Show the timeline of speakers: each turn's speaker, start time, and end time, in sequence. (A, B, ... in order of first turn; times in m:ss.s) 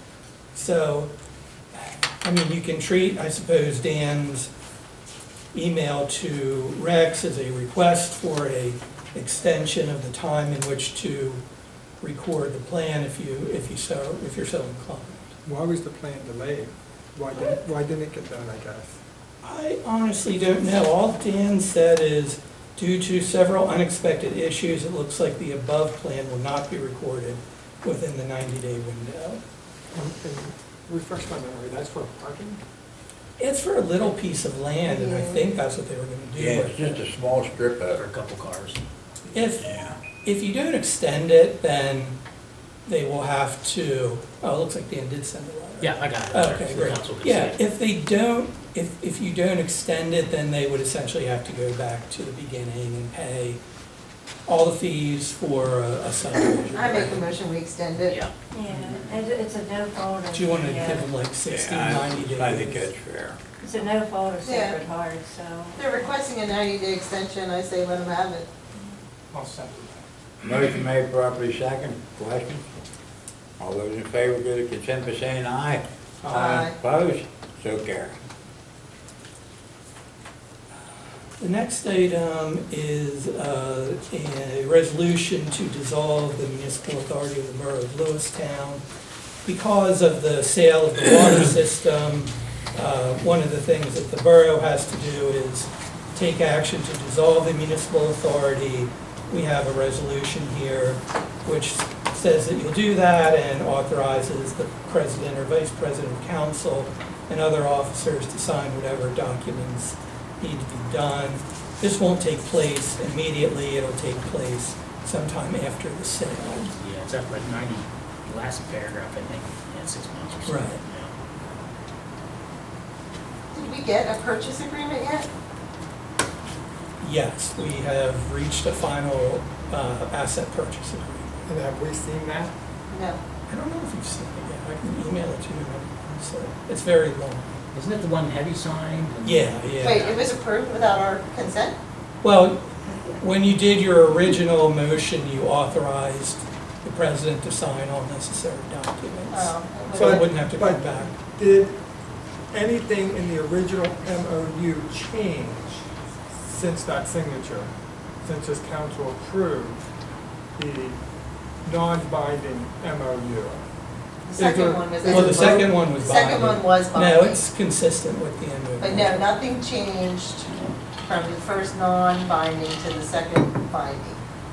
0:00.5-0:01.1 A
0:02.2-0:04.5 A
0:05.5-0:11.4 A
0:12.0-0:15.3 A
0:15.4-0:19.0 B
0:19.4-0:29.4 A
0:29.9-0:32.6 B
0:33.4-0:37.0 A
0:34.8-0:35.4 C
0:36.4-0:38.0 D
0:37.9-0:38.8 E
0:39.3-0:39.6 A
0:39.6-0:40.0 D
0:40.2-0:42.2 A
0:42.8-0:53.6 A
0:45.8-0:47.6 E
0:54.4-0:57.3 A
0:56.7-0:58.2 C
0:58.0-0:58.3 E
0:58.5-1:01.1 F
1:00.3-1:02.9 A
1:01.5-1:03.4 D
1:03.6-1:06.1 F
1:04.4-1:04.8 C
1:05.8-1:08.5 C
1:09.3-1:09.8 B
1:10.4-1:12.6 D
1:13.6-1:18.2 D
1:16.2-1:16.6 A
1:16.3-1:16.7 C
1:21.4-1:28.8 A
1:29.4-1:56.8 A
1:56.8-2:01.1 E
2:00.4-2:00.8 A
2:03.5-2:05.3 C
2:07.0-2:11.3 A
2:11.4-2:12.5 B
2:12.9-2:13.2 C
2:13.5-2:17.5 A
2:17.7-2:20.2 E
2:19.2-2:20.0 A
2:19.8-2:21.8 C
2:22.2-2:31.1 A
2:29.3-2:30.2 C
2:29.9-2:31.8 B
2:32.5-2:35.8 B
2:36.4-2:37.7 B
2:38.2-2:39.9 B
2:40.6-2:41.0 B
2:41.6-2:43.6 B
2:44.2-2:47.4 C
2:44.4-2:45.7 B
2:45.0-2:49.3 A
2:48.8-2:54.2 C